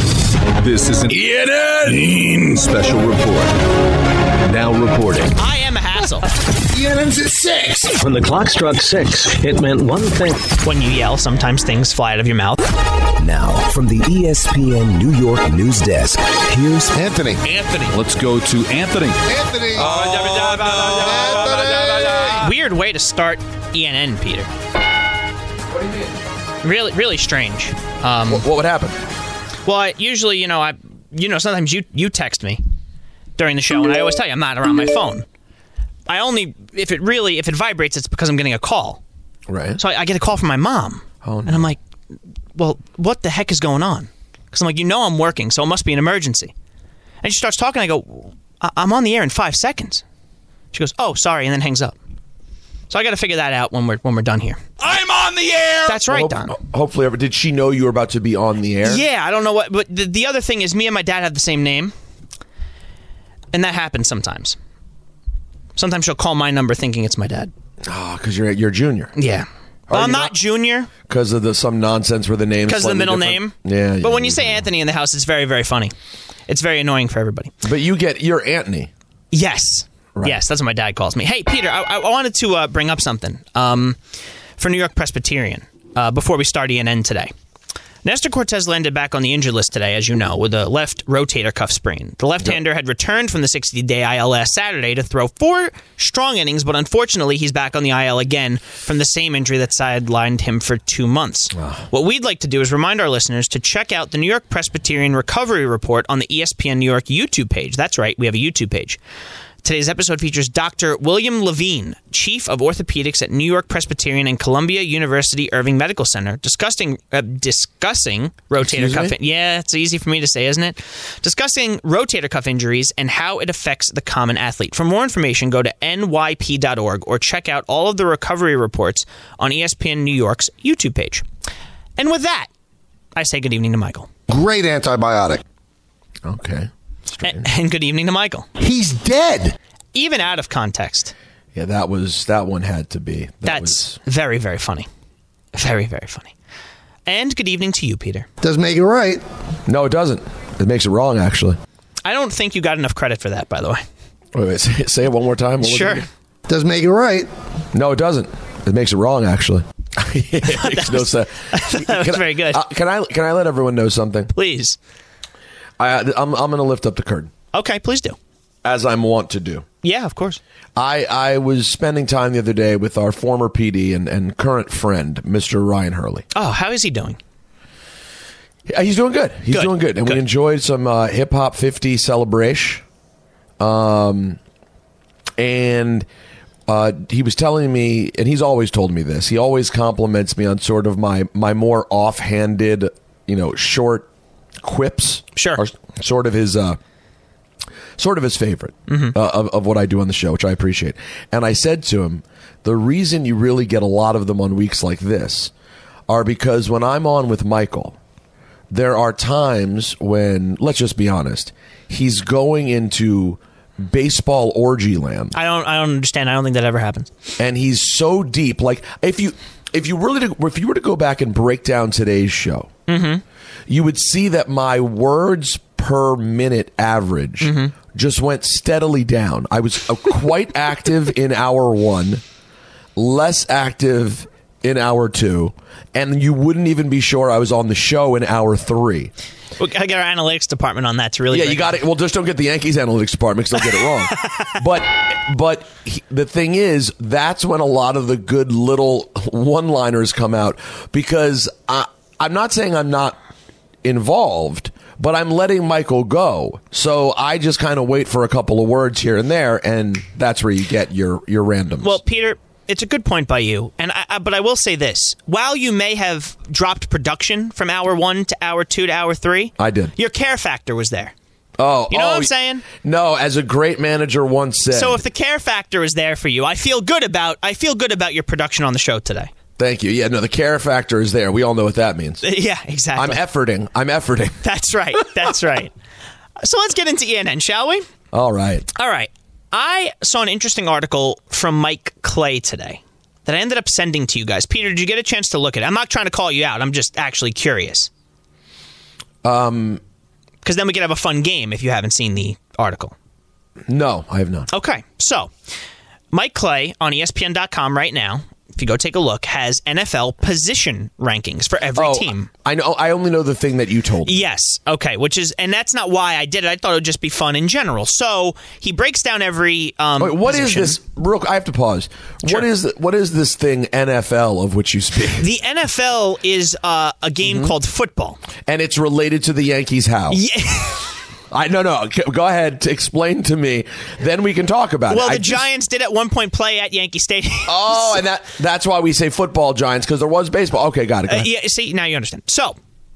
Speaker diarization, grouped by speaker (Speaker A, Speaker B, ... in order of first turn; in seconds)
Speaker A: 0.6-3.5, 4.5-5.3, 17.8-19.2, 20.1-22.0
Speaker B: 5.4-6.3, 10.6-12.7, 22.4-24.5, 26.6-28.5, 29.6-32.6, 33.4-35.3, 36.1-39.0, 39.8-41.8, 42.6-46.5, 47.2-50.0, 50.7-52.0, 52.9-54.7, 55.9-56.5, 58.9-61.9, 63.5-64.6, 65.8-67.5, 69.2-70.9, 72.7-75.9, 76.5-77.5, 79.3-84.0, 84.6-87.3, 88.0-109.0, 109.6-131.2, 132.0-132.5, 133.2-134.1, 137.2-138.5, 139.9-141.1, 143.4-144.9, 145.5-146.3, 147.1-148.3, 152.0-153.8, 155.6-156.1, 160.5-162.6, 164.3-164.8, 167.5-168.2, 169.8-170.4, 176.3-177.2, 179.5-180.2, 195.4-195.6, 198.9-199.2, 215.3-217.1, 222.9-223.2, 227.4-227.7, 239.6-241.8, 261.8-271.1, 271.9-272.7, 274.7-279.3, 282.2-283.2, 284.4-285.7, 286.4-287.9, 288.8-297.9, 300.4-302.9, 304.5-305.3, 306.1-312.3, 314.1-320.8, 325.2-328.2, 330.1-330.9, 334.9-338.0, 341.1-342.6
Speaker C: 6.7-7.9, 16.9-17.4, 19.3-19.9, 20.9-22.4, 134.3-135.4, 138.6-139.6, 148.4-149.2, 156.5-157.3
Speaker D: 8.0-10.5
Speaker E: 13.2-17.0
Speaker F: 19.8-21.1, 28.3-29.0, 39.5-39.8, 41.2-41.7, 55.9-59.0, 67.8-69.1, 69.9-70.3, 71.1-74.7, 77.6-78.9, 101.5-101.9, 118.6-119.2, 136.2-137.5, 141.6-143.9, 149.7-151.6, 154.3-156.1, 157.7-164.3, 165.8-167.3, 168.6-169.7, 170.8-176.3, 178.7-182.8, 183.6-184.4, 185.4-186.1, 186.7-194.1, 194.6-196.8, 198.0-205.5, 206.1-208.0, 208.7-215.3, 217.4-222.7, 223.7-232.2, 233.0-239.1, 241.3-253.2, 253.8-262.0, 269.6-269.9, 271.6-275.0, 279.6-282.2, 282.9-284.4, 288.1-288.7, 299.2-299.8, 303.7-304.5, 311.8-314.2, 320.0-325.3, 327.2-327.5, 328.5-330.2, 331.3-335.4, 337.5-341.3